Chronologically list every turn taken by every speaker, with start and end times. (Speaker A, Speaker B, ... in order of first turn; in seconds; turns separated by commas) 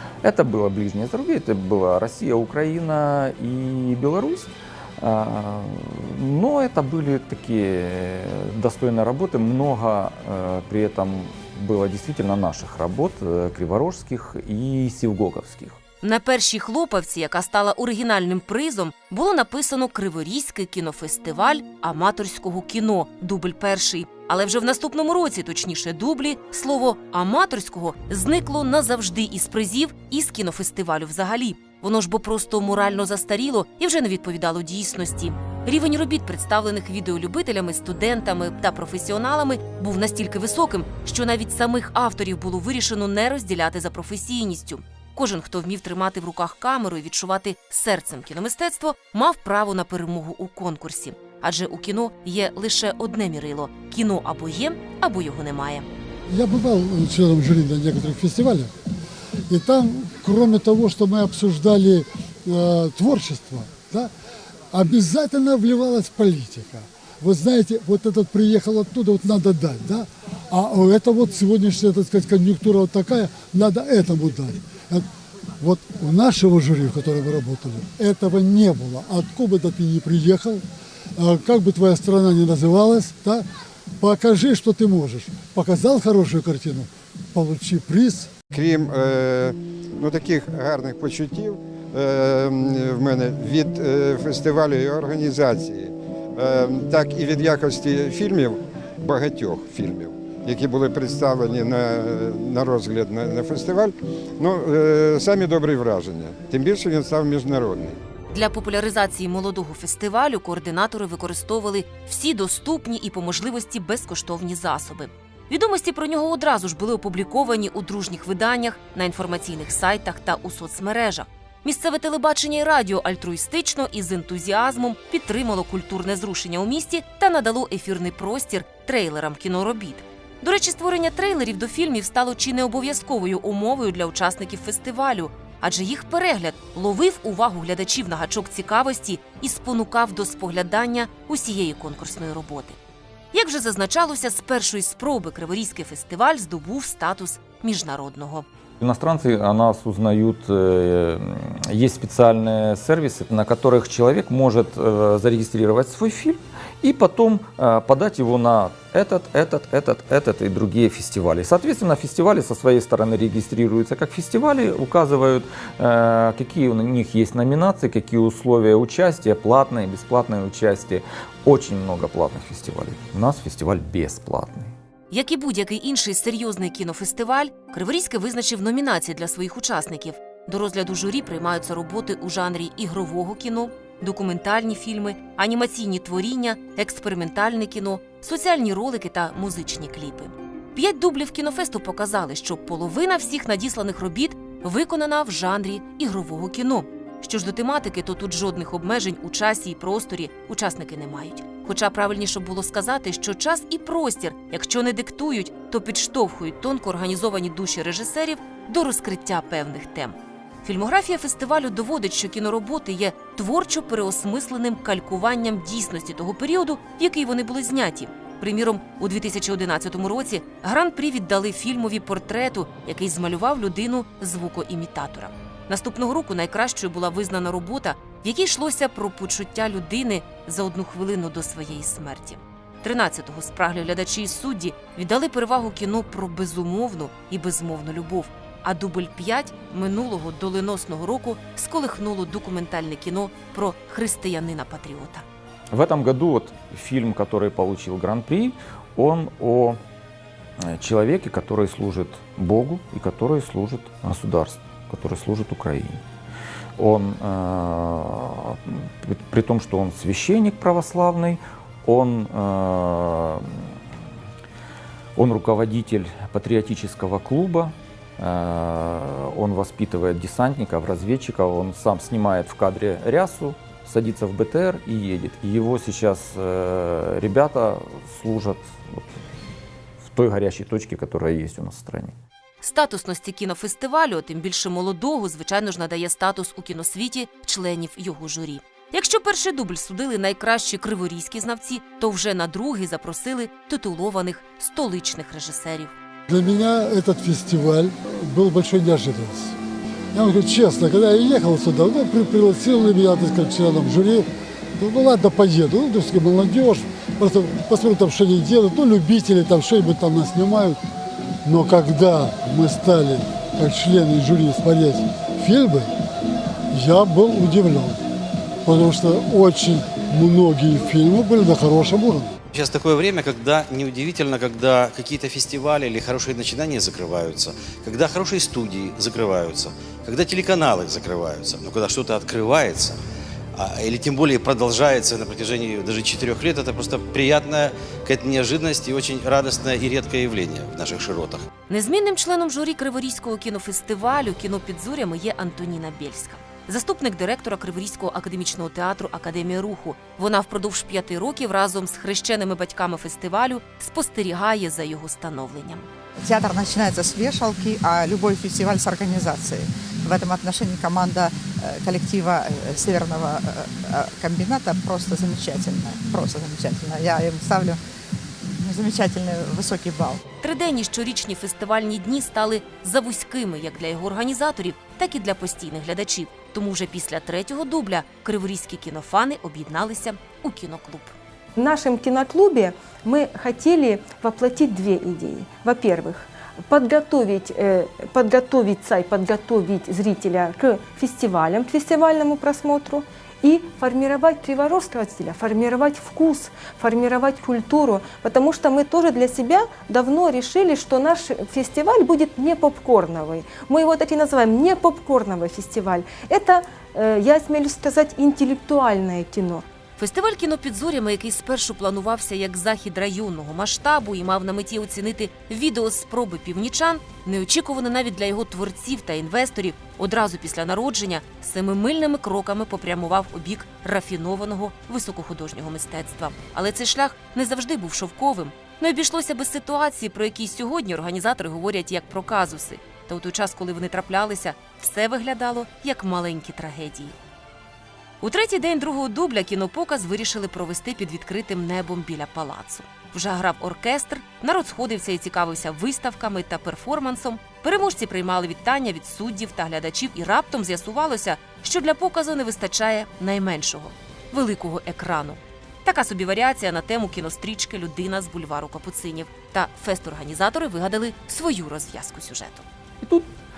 Speaker A: 0.2-15.8, Speaker B: 16.0-55.9, Speaker C: 56.3-58.7, Speaker C: 59.5-64.1, Speaker C: 64.7-75.1, Speaker C: 75.6-80.6, Speaker C: 81.2-83.5, Speaker C: 84.0-88.3, Speaker D: 88.5-108.0, Speaker B: 108.3-142.8, Speaker B: 143.3-148.4, Speaker A: 148.8-174.7, Speaker B: 175.1-245.2, Speaker A: 245.7-249.8, Speaker A: 250.6-256.0, Speaker A: 256.8-263.7, Speaker A: 265.1-279.1, Speaker A: 280.0-282.1, Speaker B: 282.6-295.9, Speaker C: 296.3-299.6, Speaker C: 300.1-310.8, Speaker C: 311.4-315.9, Speaker C: 316.7-318.0, Speaker C: 318.6-322.3, Speaker E: 322.5-333.0, Speaker E: 333.6-341.5, Speaker B: 341.7-355.9, Speaker F: 356.2-367.8, Speaker F: 368.6-370.2, Speaker B: 370.4-381.1, Speaker G: 381.6-409.6, Speaker B: 410.0-437.1, Speaker B: 438.2-462.6, Speaker A: 463.0-463.3